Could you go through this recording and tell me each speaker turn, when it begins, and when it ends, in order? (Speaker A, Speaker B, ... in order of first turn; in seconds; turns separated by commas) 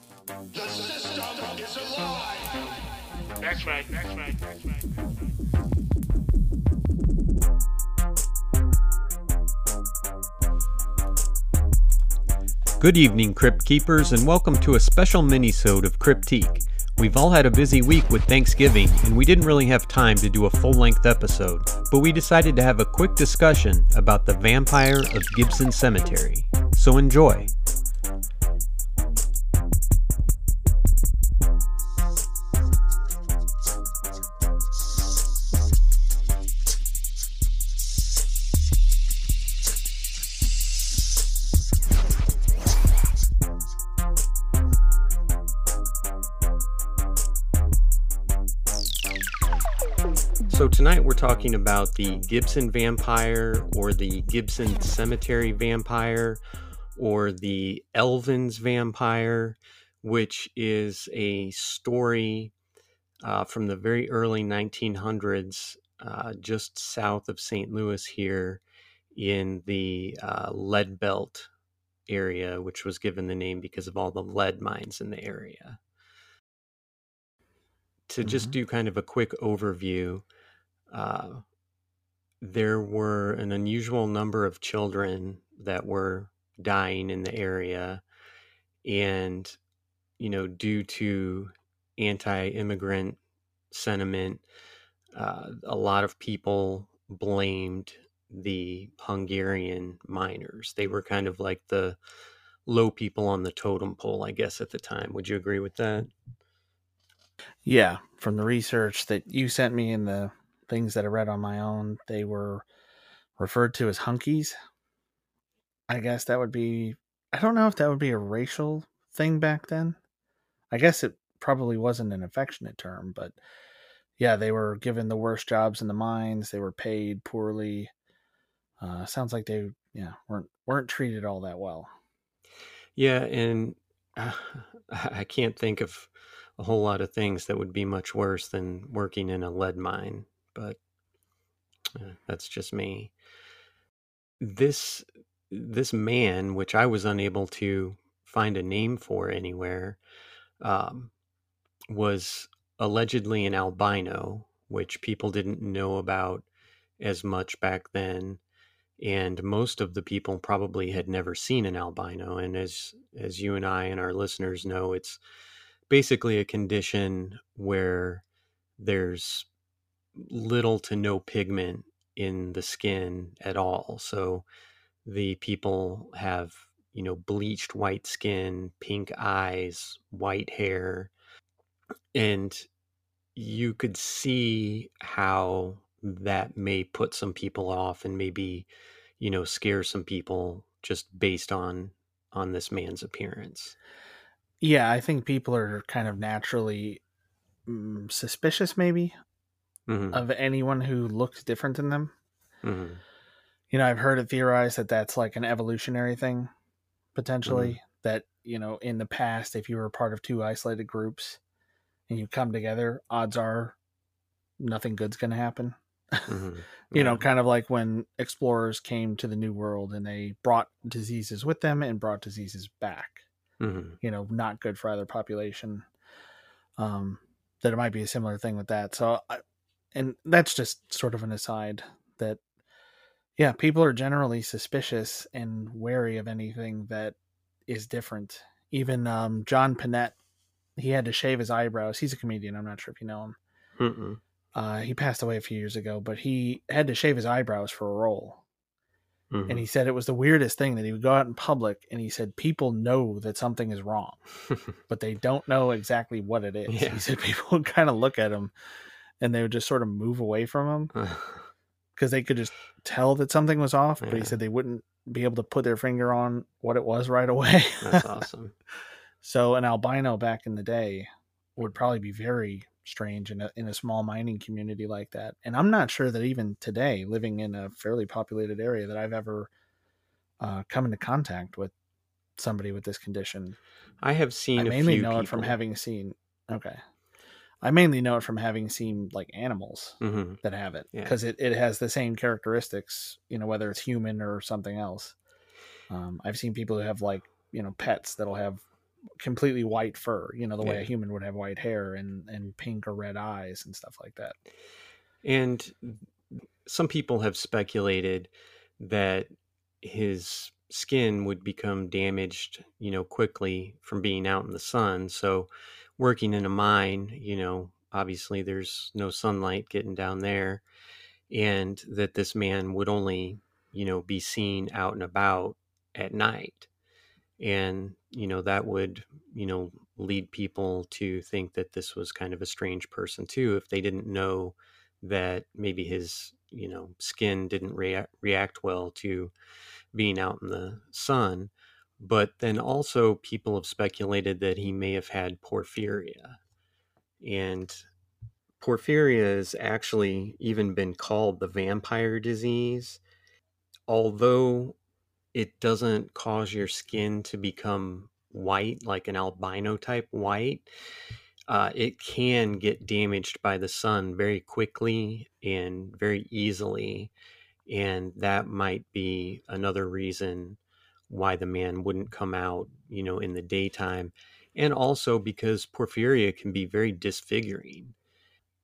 Speaker A: 0.6-1.0, Speaker A: 3.4-5.3, Speaker B: 12.8-27.5, Speaker B: 50.5-56.4, Speaker B: 57.0-62.5, Speaker B: 63.2-68.6, Speaker B: 69.1-71.5, Speaker B: 72.1-75.8, Speaker B: 78.1-80.2, Speaker C: 78.2-78.5, Speaker B: 80.9-81.4, Speaker B: 82.4-88.0, Speaker B: 88.8-89.6, Speaker B: 90.2-93.2, Speaker B: 93.7-94.4, Speaker B: 95.1-102.0, Speaker B: 102.7-106.1, Speaker C: 107.6-112.7, Speaker C: 113.4-114.5, Speaker C: 115.9-120.0, Speaker C: 120.7-123.4, Speaker C: 124.2-127.9, Speaker C: 128.8-131.9, Speaker B: 132.9-140.8, Speaker B: 141.9-143.1, Speaker B: 144.4-150.0, Speaker B: 150.6-151.1, Speaker B: 151.9-156.4, Speaker B: 157.0-158.4, Speaker B: 159.0-165.2, Speaker B: 165.9-168.2, Speaker B: 168.8-169.5, Speaker B: 170.2-174.4, Speaker B: 175.0-181.1, Speaker B: 182.1-182.7, Speaker B: 183.3-188.7, Speaker B: 189.2-193.8, Speaker C: 194.6-197.0, Speaker C: 197.7-199.2, Speaker B: 199.9-200.2, Speaker C: 200.1-202.1, Speaker B: 202.6-203.0, Speaker C: 203.7-206.5, Speaker C: 207.1-211.4, Speaker B: 207.4-207.8, Speaker C: 212.1-213.8, Speaker C: 214.6-216.3, Speaker B: 216.3-217.2, Speaker C: 216.9-223.2, Speaker B: 223.6-224.0, Speaker C: 224.0-225.8, Speaker C: 226.8-229.4, Speaker C: 229.9-232.4, Speaker C: 233.4-237.2, Speaker C: 237.7-240.2, Speaker C: 240.8-243.4, Speaker B: 243.8-244.2, Speaker C: 244.5-248.4, Speaker B: 249.3-249.7, Speaker C: 249.5-254.2, Speaker C: 254.9-258.5, Speaker B: 256.7-257.0, Speaker C: 259.2-260.9, Speaker B: 260.9-261.5, Speaker C: 261.9-268.1, Speaker B: 264.0-264.4, Speaker B: 267.8-268.5, Speaker C: 269.2-279.5, Speaker C: 280.4-281.7, Speaker C: 282.4-283.6, Speaker B: 284.0-285.6, Speaker C: 284.6-286.8, Speaker C: 287.6-295.1, Speaker B: 290.0-290.4, Speaker C: 295.9-298.6, Speaker C: 299.2-304.3, Speaker B: 300.6-300.9, Speaker B: 305.2-306.0, Speaker B: 306.6-309.3, Speaker B: 309.8-320.6, Speaker B: 321.3-326.7, Speaker B: 327.4-339.3, Speaker B: 339.9-346.4, Speaker B: 347.2-347.8, Speaker B: 348.6-353.0, Speaker B: 353.9-354.8, Speaker B: 355.3-360.6, Speaker B: 361.5-367.1, Speaker B: 367.7-377.9